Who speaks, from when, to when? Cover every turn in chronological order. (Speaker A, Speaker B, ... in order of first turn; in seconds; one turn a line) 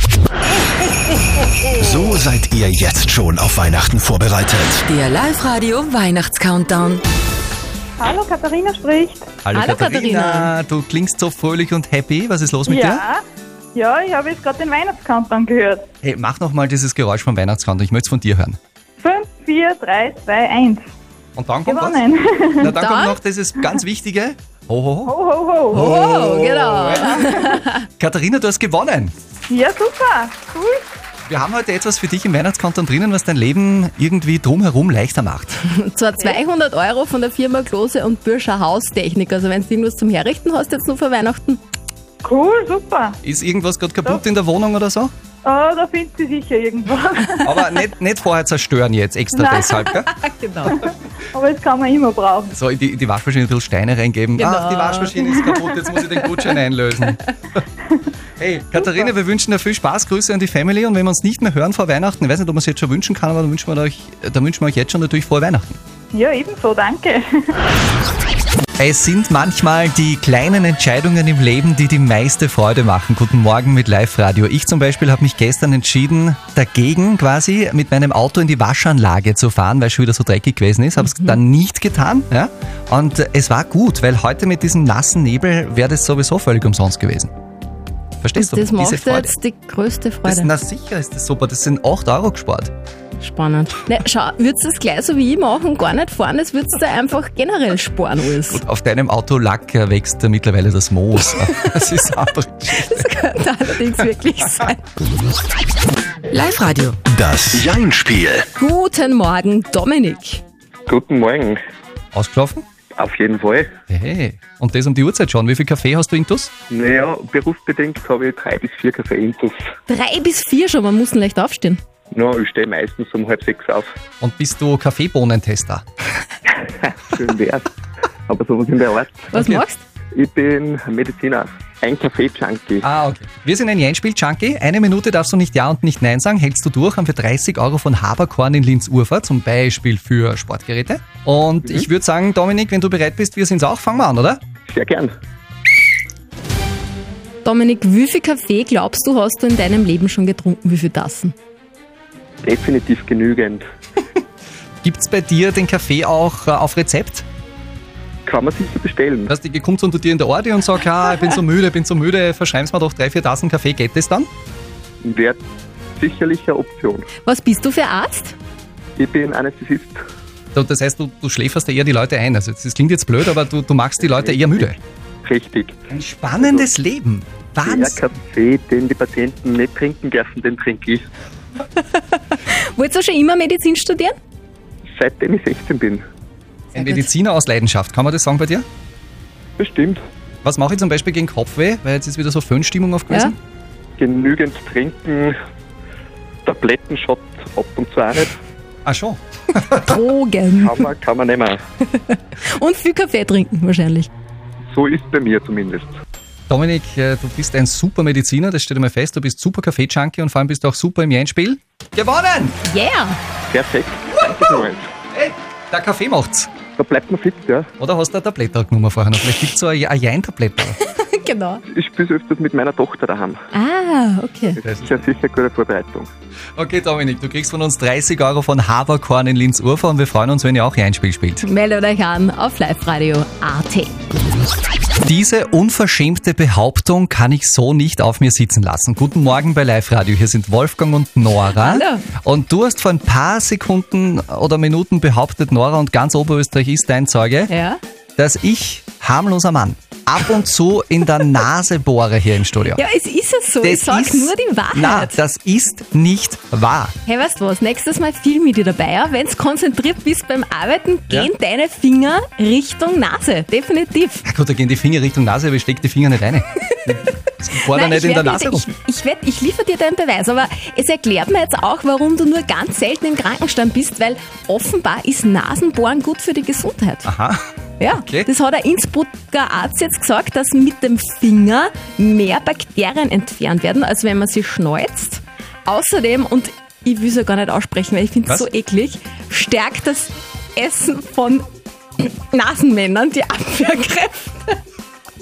Speaker A: 1.7-4.8
Speaker B: 4.8-7.0
Speaker C: 8.0-9.3
Speaker D: 9.4-13.0
Speaker E: 9.5-10.5
Speaker C: 12.7-13.2
Speaker C: 13.7-15.8
Speaker D: 16.0-18.6
Speaker C: 19.0-20.8
Speaker D: 21.4-22.0
Speaker C: 21.6-22.7
Speaker D: 22.6-25.1
Speaker E: 22.6-23.2
Speaker C: 25.1-25.9
Speaker E: 25.7-27.9
Speaker D: 25.7-27.3
Speaker D: 28.0-29.1
Speaker C: 29.5-30.8
Speaker D: 31.3-35.6
Speaker E: 35.7-41.6
Speaker C: 42.2-43.2
Speaker D: 43.2-45.1
Speaker C: 45.4-47.8
Speaker D: 47.4-50.1
Speaker C: 49.4-49.7
Speaker E: 50.0-50.8
Speaker C: 50.6-52.5
Speaker D: 52.5-57.2
Speaker E: 54.4-55.2
Speaker D: 58.4-65.8
Speaker C: 66.1-67.5
Speaker D: 68.8-87.3
Speaker E: 81.0-81.4
Speaker D: 88.2-89.3
Speaker E: 88.4-90.5
Speaker D: 90.2-92.7
Speaker E: 93.2-98.6
Speaker D: 98.5-103.0
Speaker E: 102.7-104.8
Speaker B: 106.3-107.0
Speaker A: 107.1-108.5
Speaker E: 108.6-110.4
Speaker F: 110.9-111.6
Speaker D: 112.1-112.6
Speaker F: 113.0-113.7
Speaker D: 113.9-116.5
Speaker F: 116.7-119.5
Speaker E: 119.9-121.8
Speaker F: 122.1-123.9
Speaker D: 124.2-125.8
Speaker F: 126.8-127.6
Speaker F: 128.3-129.3
Speaker E: 129.3-129.8
Speaker D: 129.3-129.6
Speaker F: 130.1-132.9
Speaker D: 132.8-144.4
Speaker F: 144.7-145.1
Speaker E: 147.4-151.3
Speaker F: 152.4-153.6
Speaker D: 154.8-157.2
Speaker F: 158.2-159.3
Speaker D: 159.3-164.3
Speaker F: 165.0-165.4
Speaker F: 166.0-167.0
Speaker E: 167.2-168.3
Speaker F: 168.9-170.0
Speaker D: 170.5-174.7
Speaker F: 174.0-175.7
Speaker D: 175.9-178.0
Speaker F: 176.4-176.7
Speaker F: 177.6-181.1
Speaker E: 181.8-184.2
Speaker F: 184.9-186.0
Speaker D: 186.7-188.6
Speaker E: 186.7-187.1
Speaker F: 189.6-190.0
Speaker D: 190.4-193.4
Speaker F: 194.0-195.3
Speaker F: 196.4-198.3
Speaker D: 198.8-200.0
Speaker E: 199.8-200.9
Speaker F: 200.6-201.6
Speaker E: 201.9-204.1
Speaker F: 204.7-206.0
Speaker D: 206.5-212.6
Speaker E: 212.6-213.2
Speaker F: 213.5-214.9
Speaker D: 214.1-216.5
Speaker F: 216.8-217.7
Speaker D: 217.8-220.8
Speaker E: 220.8-221.6
Speaker F: 221.7-223.4
Speaker E: 223.5-224.6
Speaker F: 224.6-226.1
Speaker D: 226.6-231.4
Speaker E: 231.4-233.9
Speaker D: 235.0-247.5
Speaker E: 241.5-242.1
Speaker E: 247.5-247.8
Speaker D: 248.2-252.8
Speaker E: 252.7-255.2
Speaker D: 253.6-256.9
Speaker E: 257.1-264.2
Speaker D: 264.2-268.7
Speaker E: 267.7-277.1
Speaker D: 277.1-277.4
Speaker E: 277.8-291.4
Speaker D: 277.9-278.3
Speaker E: 292.0-294.6